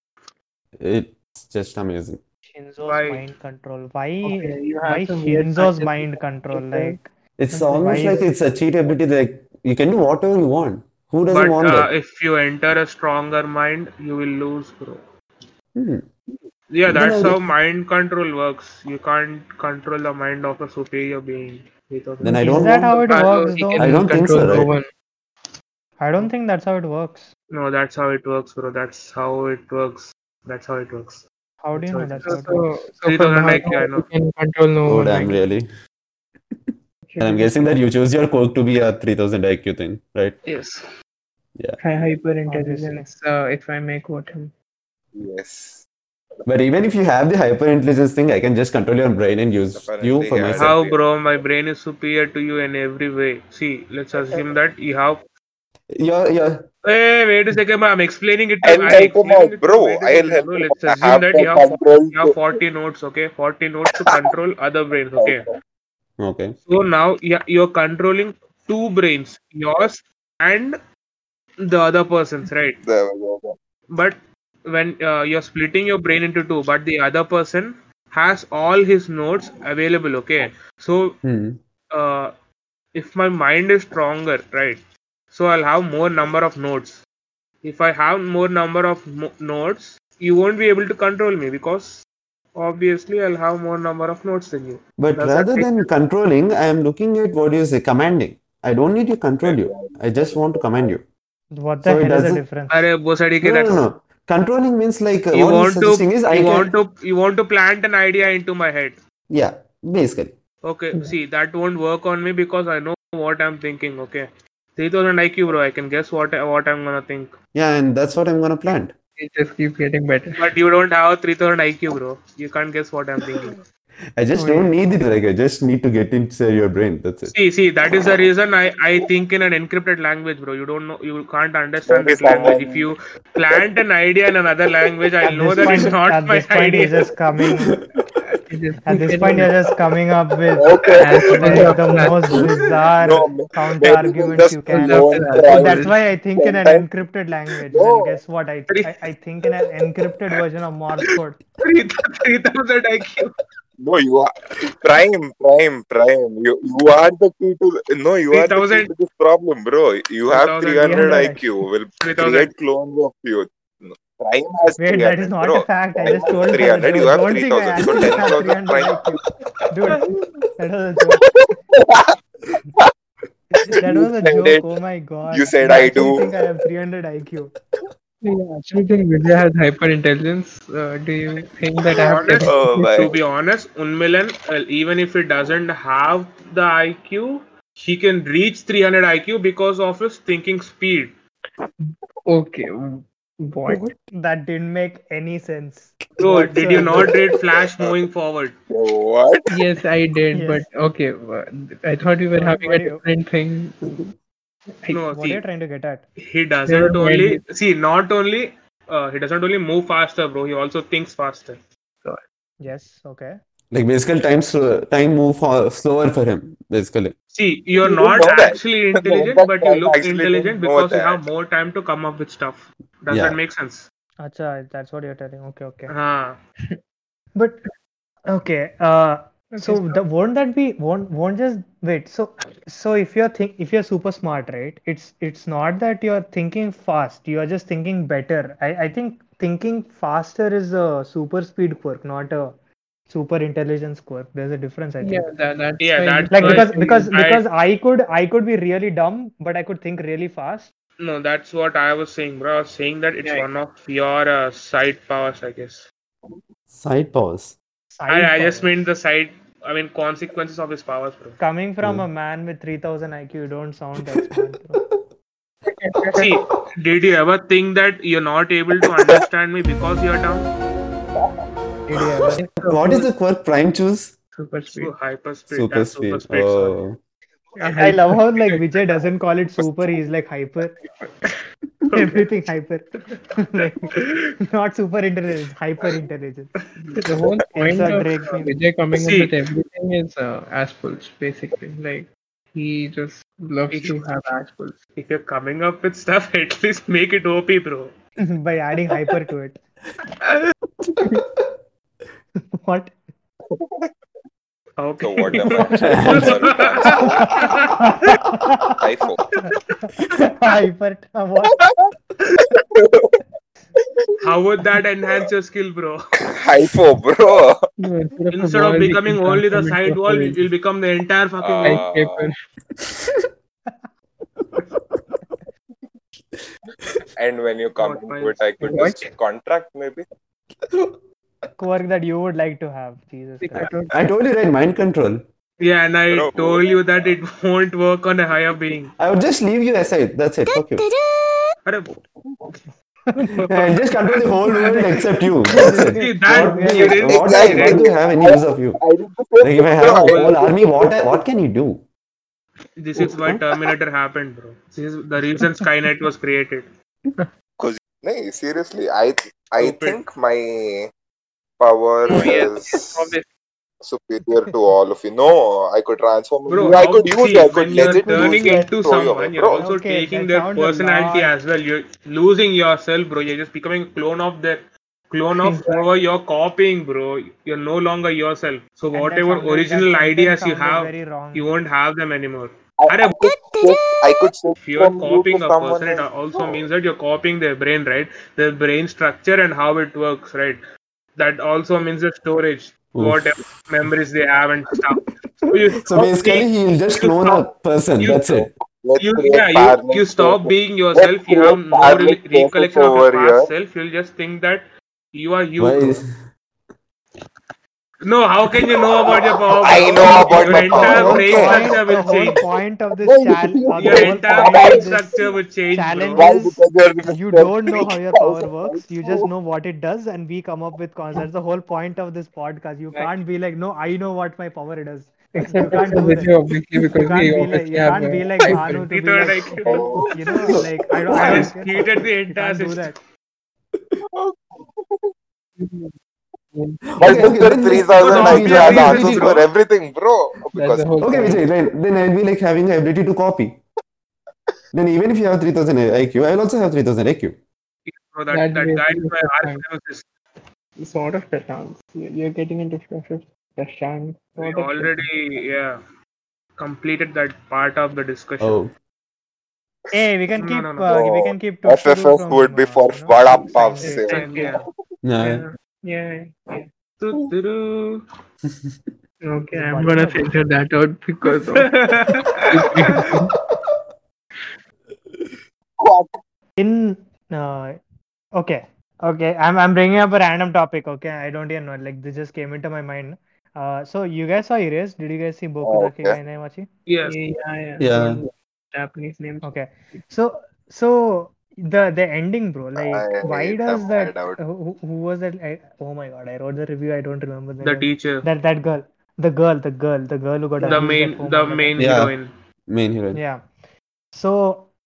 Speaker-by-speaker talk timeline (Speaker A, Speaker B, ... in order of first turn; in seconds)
Speaker A: 0.8-2.2, 7.4-11.9, 15.8-16.4, 16.9-17.4, 22.2-23.0, 23.8-24.7, 34.9-35.6, 36.5-40.4, 46.5-50.8, 56.0-56.6, 66.2-66.6, 81.2-81.6, 95.0-101.1, 101.8-102.4, 103.4-106.7, 109.3-110.4, 117.5-119.0, 124.2-127.3, 137.5-137.9, 213.7-217.1, 223.1-223.4, 256.7-257.6, 264.1-265.0, 272.1-274.2, 275.5-277.0, 300.8-301.5, 305.7-306.4, 322.8-323.3, 324.4-325.5, 326.3-327.1, 330.6-331.5, 333.9-335.2, 339.0-340.9, 343.5-348.8, 349.4-351.9, 353.0-353.5, 392.9-393.4, 395.1-398.5, 405.6-406.1, 410.8-411.1, 433.7-434.0, 436.9-439.5, 441.0-443.6, 444.7-447.4, 458.4-458.7, 465.0-465.4, 468.4-468.9, 473.1-473.8, 474.9-475.4, 487.8-488.2, 501.8-502.2, 502.7-503.2
Speaker B: 2.5-8.3, 22.5-23.9, 26.0-27.3, 31.6-32.7, 42.5-43.1, 101.5-102.9, 135.2-137.8, 138.9-140.8, 141.4-151.4, 160.8-161.5, 164.8-169.2, 169.7-170.0, 170.6-171.3, 173.8-177.5, 194.1-197.1, 200.3-200.6, 202.3-203.0, 205.1-206.1, 212.6-213.4, 224.2-225.9, 227.3-227.6, 228.3-242.6, 243.1-245.3, 246.3-250.7, 257.9-258.8, 261.4-264.8, 277.8-280.8, 281.9-283.9, 284.4-286.5, 287.6-288.6, 298.2-299.6, 302.6-302.9, 305.6-305.9, 307.1-308.8, 310.2-311.6, 331.6-333.7, 343.1-343.4, 344.5-347.0, 367.7-368.7, 369.6-371.4, 378.9-381.6, 410.8-415.1, 415.7-426.3, 427.0-433.0, 459.9-464.2, 469.6-470.3, 476.6-477.8, 478.4-486.7, 489.4-501.8, 503.1-503.6, 504.1-504.7
Speaker C: 2.9-3.2, 11.3-15.0, 16.7-23.3, 27.5-32.5, 33.0-34.1, 40.5-40.8, 50.5-55.2, 56.9-65.5, 66.7-70.8, 71.6-72.8, 73.9-81.2, 81.9-82.3, 83.0-84.8, 85.3-87.0, 87.6-92.0, 92.6-95.9, 102.7-103.8, 105.3-109.0, 110.7-117.3, 120.4-123.6, 127.3-137.1, 148.7-148.9, 151.6-153.3, 158.3-158.9, 160.3-161.3, 162.0-162.5, 182.0-191.1, 196.2-198.6, 204.9-205.4, 206.2-211.6, 217.3-223.9, 225.9-226.3, 245.8-247.4, 251.0-255.9, 258.1-261.4, 266.2-270.5, 274.7-276.8, 288.9-289.3, 293.7-294.0, 295.0-297.9, 304.8-307.8, 314.2-316.0, 318.3-321.8, 327.8-328.4, 335.6-338.9, 343.4-343.6, 345.9-347.9, 350.0-350.4, 352.8-356.7, 359.6-360.0, 366.5-383.2, 384.6-390.6, 391.2-397.5, 398.0-398.2, 399.0-406.0, 408.1-412.4, 413.8-416.3, 428.9-429.8, 431.1-432.9, 438.0-439.5, 447.9-450.1, 454.4-455.8, 456.6-458.6, 460.4-460.9, 464.1-464.7, 467.0-468.0, 471.6-473.0, 486.9-487.2, 497.6-498.3, 500.6-502.3
Speaker D: 4.2-7.0, 22.5-24.9, 32.2-35.4, 37.1-37.6, 41.8-44.5, 119.2-120.4, 124.4-124.7, 138.5-139.5, 141.0-142.5, 144.7-145.9, 178.2-183.1, 191.8-193.9, 199.5-204.0, 206.7-207.4, 229.5-230.0, 245.0-247.1, 265.7-266.4, 271.9-273.1, 274.4-274.9, 277.6-278.7, 280.8-281.4, 286.9-294.8, 317.8-320.5, 321.6-322.4, 328.6-329.1, 333.4-333.9, 362.1-363.2, 375.5-375.9, 425.4-428.9, 435.6-435.9, 436.5-437.2, 440.6-441.5, 448.3-449.6, 450.8-455.0, 463.3-464.5, 465.2-466.7, 469.3-471.8, 472.5-473.3, 487.1-490.0, 500.6-501.0
Speaker E: 45.1-45.8, 49.7-51.0, 58.6-62.4, 65.2-65.6, 72.8-73.6, 99.4-100.9, 131.9-132.9, 140.6-141.1, 143.0-145.8, 146.4-146.8, 147.7-148.2, 153.8-169.0, 171.4-172.9, 173.6-174.7, 175.3-176.2, 182.4-183.2, 198.7-199.5, 217.8-221.2, 303.5-303.9, 305.0-307.4, 308.8-309.2, 311.5-311.9, 312.8-313.2, 316.3-317.6, 321.4-322.3, 327.2-330.1, 336.1-336.8, 347.1-350.7, 357.6-360.9, 361.6-363.1, 363.8-369.6, 382.8-386.6, 398.2-403.5, 409.6-411.7, 413.0-415.0, 416.2-419.3, 429.6-430.1, 434.1-435.1, 437.0-440.9, 460.9-464.4, 475.8-476.2, 485.6-486.2, 492.8-494.4